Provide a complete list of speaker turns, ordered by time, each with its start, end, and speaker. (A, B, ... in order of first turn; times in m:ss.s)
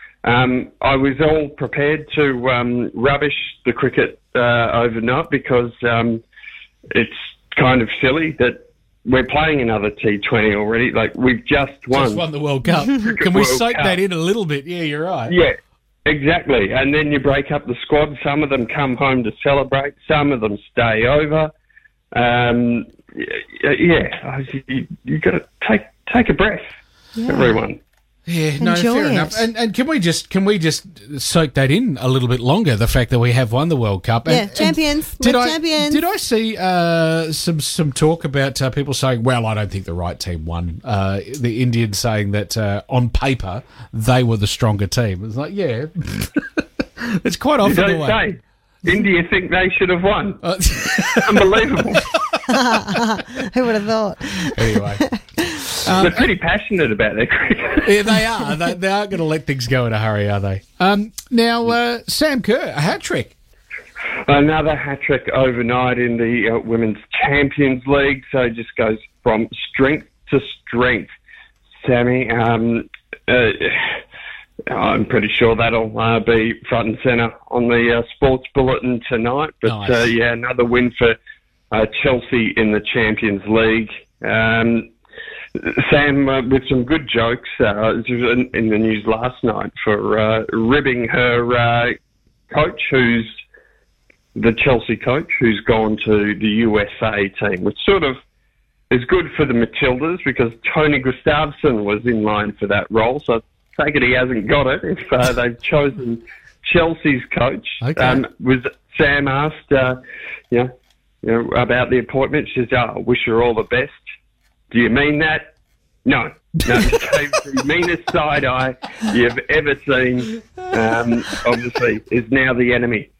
0:00.2-0:06.2 A
0:06.9-0:12.2 A
0:11.9-0:15.4 B
0:13.0-0:14.0 A
0:15.3-0:15.5 A
0:16.0-0:21.5 A
0:22.1-0:26.7 A
0:27.2-0:27.6 C
0:27.2-0:27.8 A
0:28.3-0:48.2 B
0:28.6-0:29.4 C
0:34.3-0:36.0 C
0:47.6-0:50.4 A
0:50.4-0:52.4 B
0:50.9-0:52.1 A
0:52.5-0:55.4 C
0:54.5-0:56.3 B
0:55.9-0:58.0 A
0:57.8-1:03.3 B
1:04.2-1:11.1 A
1:11.8-1:14.0 A
1:14.7-1:21.2 A
1:19.6-1:20.1 B
1:21.7-1:24.9 A
1:25.6-1:32.0 A
1:32.5-1:33.3 A
1:34.4-1:38.2 A
1:38.9-1:50.0 A
1:47.8-1:48.2 B
1:51.2-1:54.0 A
1:54.7-1:55.5 A
1:56.0-2:03.1 A